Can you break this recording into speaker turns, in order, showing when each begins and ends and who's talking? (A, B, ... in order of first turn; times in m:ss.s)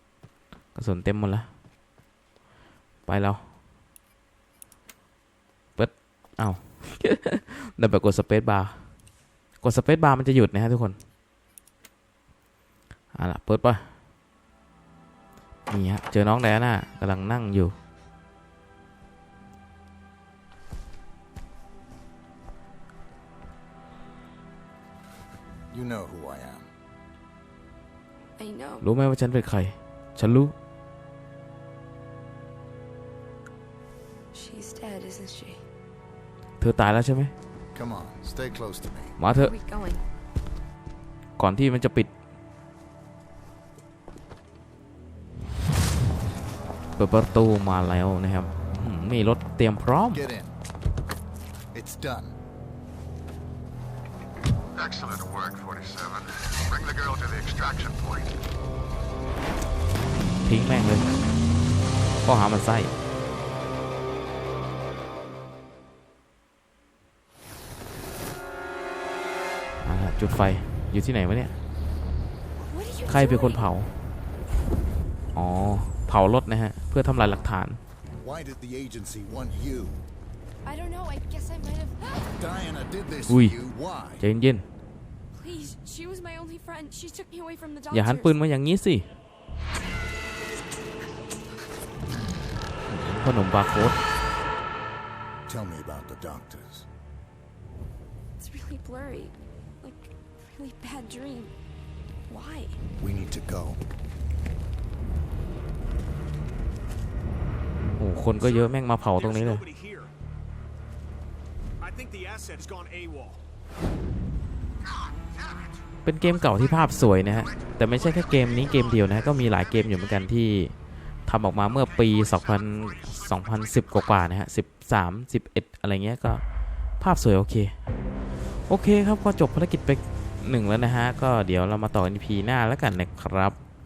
0:00.8-0:01.5 A
0:03.1-0:03.4 A
0:05.8-0:08.9 A
0:09.6-0:11.0 A
0:13.1-0:13.9 A
0:15.7-0:17.8 A
0:25.7-0:26.7 B
0:28.4-0:28.9 C
0:28.8-0:30.5 A
0:34.3-0:35.6 C
0:36.6-0:37.3 A
0:37.7-0:39.2 B
0:39.2-0:39.6 A
0:39.3-0:40.0 C
0:41.4-0:42.1 A
0:47.0-0:50.2 A
0:50.1-0:50.6 B
0:51.7-0:52.4 B
0:54.7-0:58.3 D
1:00.3-1:01.1 A
1:02.2-1:02.9 A
1:09.8-1:11.6 A
1:12.6-1:13.7 C
1:13.1-1:14.0 A
1:15.4-1:17.8 A
1:18.1-1:20.1 B
1:20.6-1:22.3 C
1:22.3-1:24.3 B
1:23.3-1:23.6 A
1:24.2-1:24.7 A
1:25.3-1:28.4 C
1:27.9-1:29.1 A
1:32.9-1:34.0 A
1:35.5-1:36.9 B
1:38.4-1:41.6 C
1:42.3-1:42.8 C
1:43.0-1:43.8 B
1:48.0-1:49.6 A
1:48.4-1:50.1 E
1:51.8-1:53.4 E
1:56.0-2:06.4 A
2:07.0-2:07.8 A
2:08.6-2:13.6 A